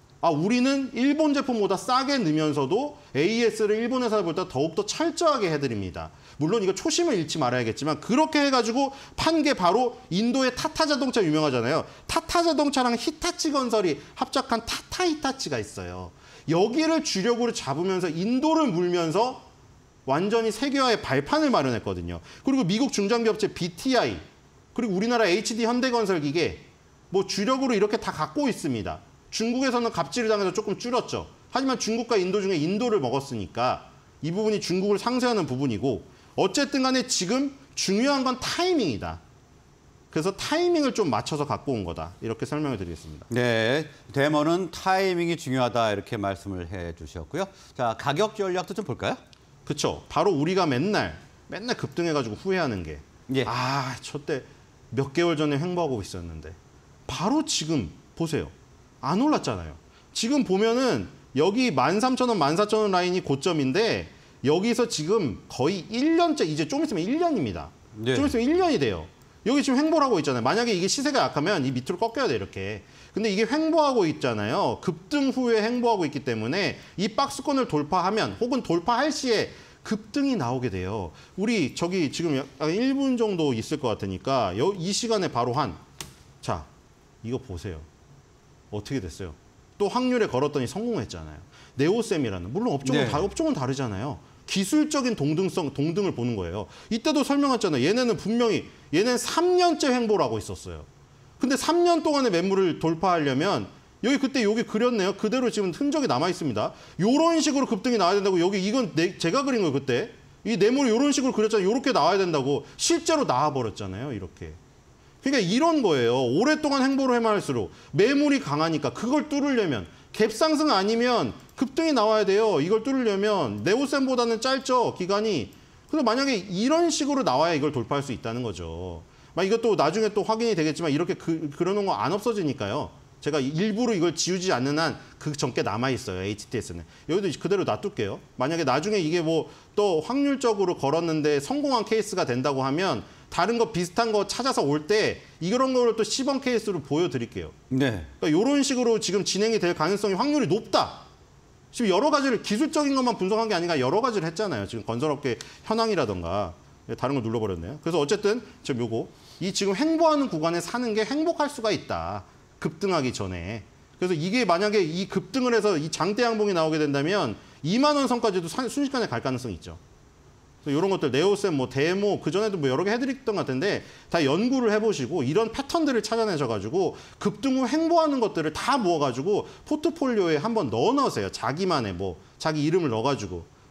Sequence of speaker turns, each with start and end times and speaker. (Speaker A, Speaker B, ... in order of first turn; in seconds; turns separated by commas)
Speaker A: 0.2-19.5, Speaker A: 20.1-39.2, Speaker A: 40.1-43.3, Speaker B: 43.3-49.2, Speaker A: 49.7-85.8, Speaker B: 68.0-68.3, Speaker A: 86.4-86.7, Speaker A: 87.2-87.9, Speaker A: 88.7-100.9, Speaker B: 92.8-93.3, Speaker A: 101.4-114.6, Speaker A: 115.2-147.6, Speaker B: 147.7-148.1, Speaker A: 148.2-151.1, Speaker A: 151.7-169.8, Speaker A: 170.6-183.5